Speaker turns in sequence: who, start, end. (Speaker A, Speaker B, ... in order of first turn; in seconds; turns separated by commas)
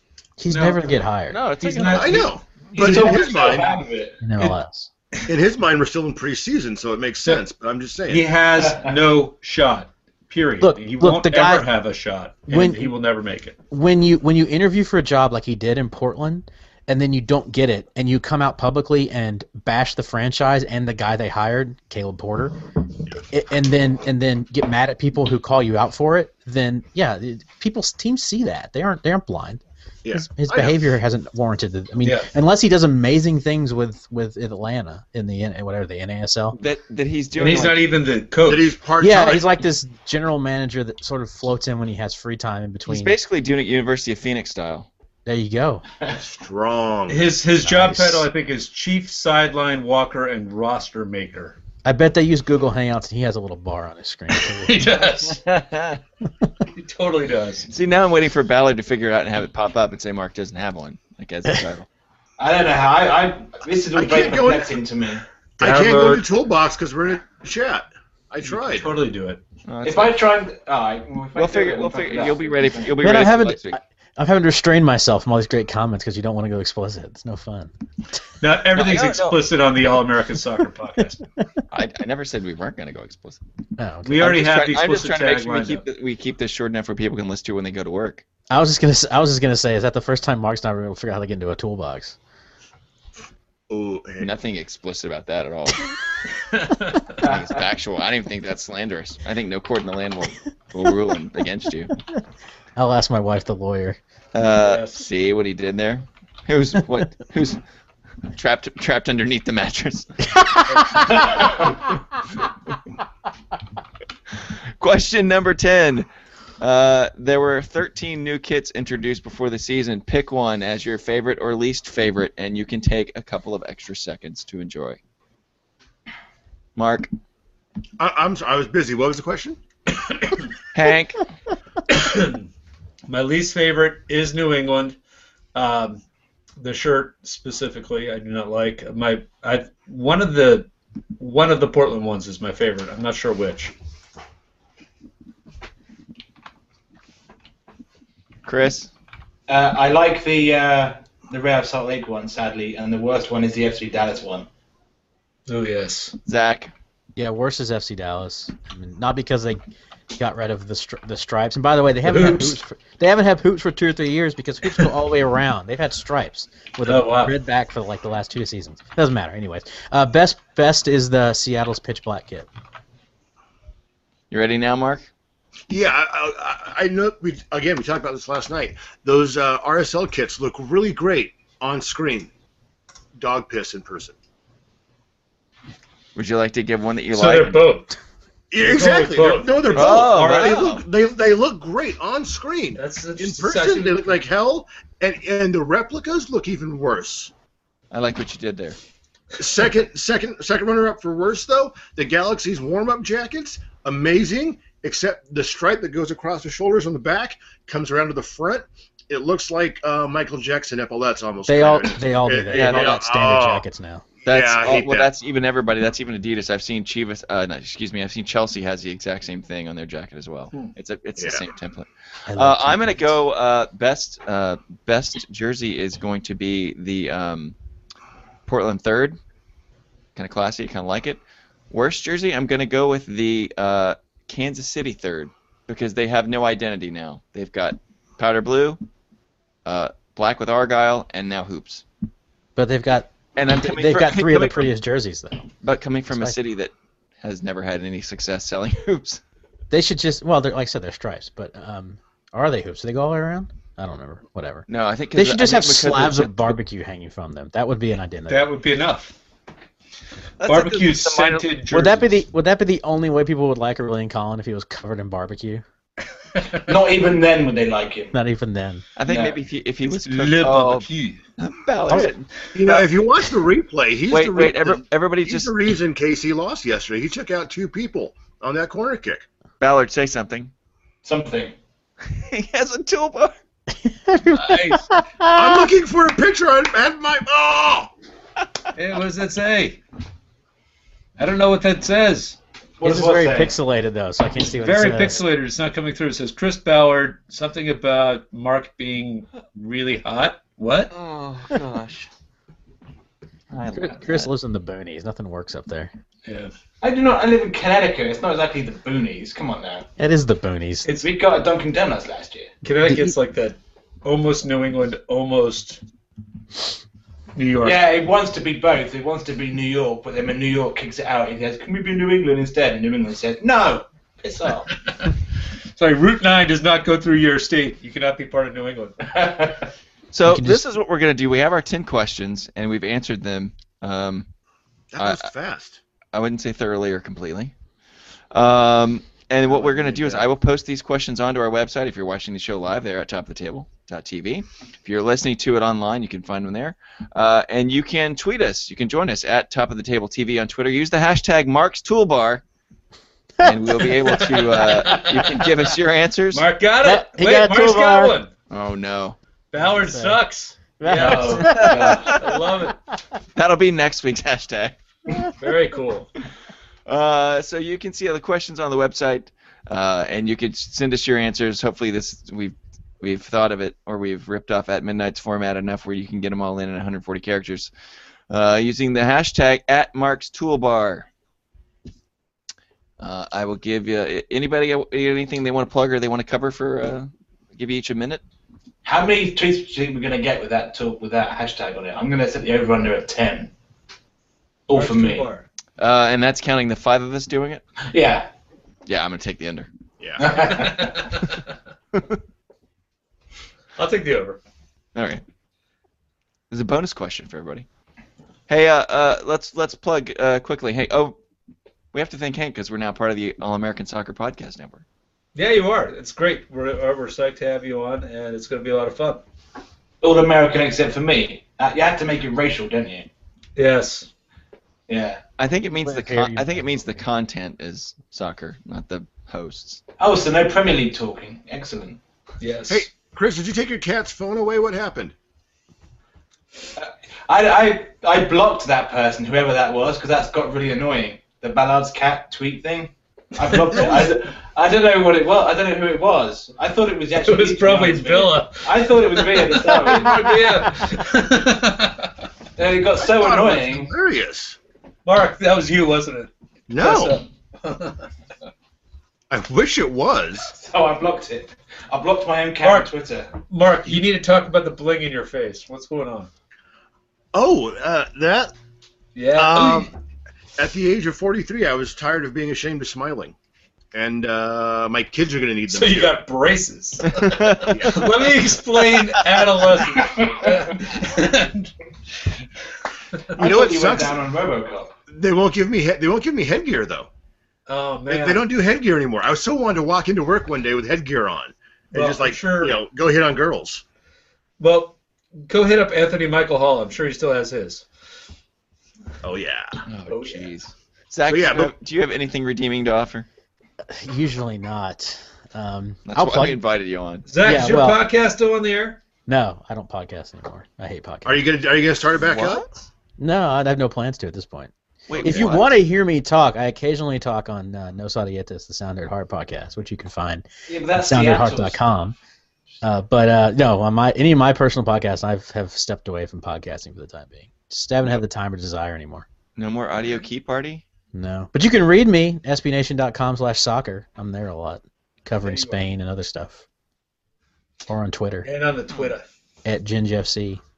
Speaker A: 0.4-1.4, Speaker B: 0.5-1.0, Speaker C: 1.3-2.4, Speaker B: 1.6-3.0, Speaker D: 1.9-3.8, Speaker E: 2.7-4.2, Speaker A: 4.2-4.9, Speaker D: 5.3-8.3, Speaker B: 8.1-13.6, Speaker E: 8.6-8.9, Speaker A: 10.6-11.7, Speaker A: 12.5-12.9, Speaker A: 13.7-22.6, Speaker A: 23.3-29.6, Speaker D: 30.0-30.8, Speaker A: 30.1-36.6, Speaker B: 32.0-32.3, Speaker C: 36.6-37.8, Speaker B: 37.4-38.7, Speaker D: 38.4-39.4, Speaker A: 39.0-43.2, Speaker C: 42.9-44.9, Speaker A: 45.2-45.8, Speaker D: 46.1-47.3, Speaker B: 47.1-51.6, Speaker A: 47.6-48.3, Speaker A: 51.8-54.9, Speaker B: 54.4-55.4, Speaker C: 55.2-56.0, Speaker B: 56.7-57.7, Speaker C: 57.7-61.9, Speaker E: 62.4-65.2, Speaker D: 63.9-64.7, Speaker D: 65.6-69.0, Speaker B: 65.6-66.2, Speaker B: 68.4-69.4, Speaker C: 69.7-70.2, Speaker E: 69.8-72.9, Speaker C: 71.3-73.8, Speaker A: 73.0-77.7, Speaker B: 78.4-81.2, Speaker C: 78.7-79.4, Speaker C: 81.7-83.4, Speaker A: 83.8-84.4, Speaker B: 84.0-85.8, Speaker C: 84.2-88.2, Speaker A: 88.5-92.2, Speaker D: 93.7-94.3, Speaker C: 94.2-95.9, Speaker B: 96.3-97.3, Speaker C: 97.1-101.9, Speaker A: 102.8-104.0, Speaker C: 104.3-107.6, Speaker B: 104.6-105.0, Speaker C: 108.3-110.4, Speaker A: 110.3-111.0, Speaker B: 110.7-111.1, Speaker C: 111.5-111.7, Speaker C: 114.8-116.1, Speaker C: 116.6-125.0, Speaker C: 126.8-127.1, Speaker D: 128.0-129.6, Speaker C: 130.7-131.2, Speaker B: 131.9-132.5, Speaker B: 133.1-135.0, Speaker B: 135.5-136.0, Speaker B: 136.6-143.7, Speaker C: 148.4-148.9, Speaker E: 149.5-154.5, Speaker B: 155.5-156.2, Speaker C: 156.3-156.7, Speaker A: 157.2-159.6, Speaker A: 160.1-172.5, Speaker B: 162.0-162.6, Speaker B: 166.8-167.3, Speaker C: 174.3-175.1, Speaker D: 175.7-182.3, Speaker D: 183.2-184.1, Speaker C: 186.1-187.6, Speaker B: 187.1-187.9, Speaker D: 188.5-197.3, Speaker B: 188.6-190.7, Speaker C: 189.7-190.8, Speaker B: 192.8-194.1, Speaker C: 197.9-198.8, Speaker D: 199.4-213.6, Speaker A: 211.5-214.1, Speaker C: 212.5-213.0, Speaker D: 214.2-215.1, Speaker C: 214.3-227.6, Speaker D: 221.2-221.4, Speaker A: 222.3-223.1, Speaker C: 228.4-229.2, Speaker C: 230.2-238.8, Speaker C: 239.6-241.8, Speaker A: 242.6-245.5, Speaker C: 243.3-244.7, Speaker C: 245.6-249.2, Speaker A: 246.1-246.3, Speaker A: 249.7-258.4, Speaker C: 254.7-256.5, Speaker B: 258.3-259.1, Speaker C: 260.4-261.5, Speaker B: 260.4-262.2, Speaker A: 261.7-265.6, Speaker B: 266.3-266.7, Speaker E: 266.5-268.1, Speaker A: 268.1-268.8, Speaker C: 268.9-272.9, Speaker E: 269.1-269.4, Speaker B: 270.0-271.2, Speaker D: 271.9-279.2, Speaker C: 274.1-275.6, Speaker C: 279.6-280.5, Speaker E: 281.0-281.5, Speaker C: 282.1-283.3, Speaker A: 283.8-285.7, Speaker B: 284.3-284.9, Speaker D: 285.3-287.9, Speaker B: 288.7-289.8, Speaker B: 291.2-292.4, Speaker E: 292.8-293.6, Speaker A: 292.8-295.2, Speaker B: 294.4-300.9, Speaker C: 300.9-302.1, Speaker C: 303.5-304.3, Speaker A: 303.7-305.9, Speaker B: 306.2-306.5, Speaker E: 306.8-309.9, Speaker A: 310.0-311.0, Speaker E: 310.9-312.5, Speaker B: 312.6-315.8, Speaker A: 312.8-313.1, Speaker B: 317.3-317.8, Speaker E: 317.6-324.8, Speaker B: 324.9-325.1, Speaker B: 325.7-329.0, Speaker E: 329.0-329.7, Speaker C: 330.1-334.3, Speaker A: 330.2-330.6, Speaker D: 334.9-335.8, Speaker C: 335.0-335.3, Speaker C: 336.1-337.5, Speaker C: 338.3-352.4, Speaker D: 339.4-340.3, Speaker C: 353.4-356.4, Speaker B: 354.2-355.5, Speaker B: 356.3-358.3, Speaker A: 356.8-358.1, Speaker C: 358.5-359.1, Speaker B: 359.5-362.8, Speaker A: 359.6-360.2, Speaker A: 360.8-362.1, Speaker E: 360.9-362.2, Speaker C: 361.4-362.2, Speaker C: 363.3-364.8, Speaker B: 365.4-366.1, Speaker C: 366.9-377.7, Speaker C: 378.3-381.1, Speaker C: 383.0-388.2, Speaker E: 388.8-393.5, Speaker E: 394.7-395.3, Speaker B: 394.7-395.4, Speaker C: 395.8-397.6, Speaker E: 397.8-398.3, Speaker C: 398.9-399.7, Speaker D: 400.0-400.5, Speaker E: 400.2-401.1, Speaker B: 400.4-401.4, Speaker B: 403.8-404.4, Speaker C: 404.9-405.2, Speaker C: 406.5-407.6, Speaker C: 408.5-411.1, Speaker C: 411.9-414.8, Speaker B: 415.3-419.2, Speaker E: 420.0-423.1, Speaker B: 423.6-424.1, Speaker E: 424.9-425.2, Speaker C: 425.4-429.8, Speaker A: 425.8-427.0, Speaker E: 430.0-432.0, Speaker B: 432.4-432.9, Speaker D: 432.7-435.1, Speaker E: 436.8-450.6, Speaker B: 443.4-444.1, Speaker B: 447.2-452.1, Speaker E: 452.6-453.9, Speaker D: 453.0-454.6, Speaker B: 455.0-458.1, Speaker D: 456.7-457.2, Speaker D: 459.3-460.5, Speaker E: 460.4-463.3, Speaker B: 462.6-466.3, Speaker D: 467.3-468.5, Speaker B: 469.1-469.9, Speaker D: 469.3-469.9, Speaker D: 470.6-473.3, Speaker D: 473.9-476.2, Speaker B: 475.7-482.4, Speaker C: 477.1-477.9, Speaker D: 477.7-478.4, Speaker E: 479.8-481.0, Speaker D: 483.3-484.2, Speaker E: 483.3-484.9, Speaker D: 485.1-487.1, Speaker B: 487.7-488.4, Speaker D: 488.1-493.8, Speaker B: 491.9-492.8, Speaker B: 494.6-497.9, Speaker D: 499.2-499.8, Speaker C: 499.9-503.3, Speaker B: 500.1-500.5, Speaker D: 501.3-501.7, Speaker A: 503.9-506.6, Speaker C: 506.1-507.3, Speaker B: 507.2-509.0, Speaker A: 507.4-508.0, Speaker A: 509.3-511.4, Speaker D: 511.2-512.6, Speaker C: 512.2-512.8, Speaker A: 513.2-522.1, Speaker C: 515.1-515.8, Speaker E: 520.7-521.8, Speaker A: 522.8-529.2, Speaker C: 529.5-530.8, Speaker A: 531.1-536.6, Speaker B: 535.4-535.8, Speaker A: 537.9-538.5, Speaker B: 538.4-539.3, Speaker A: 539.6-540.6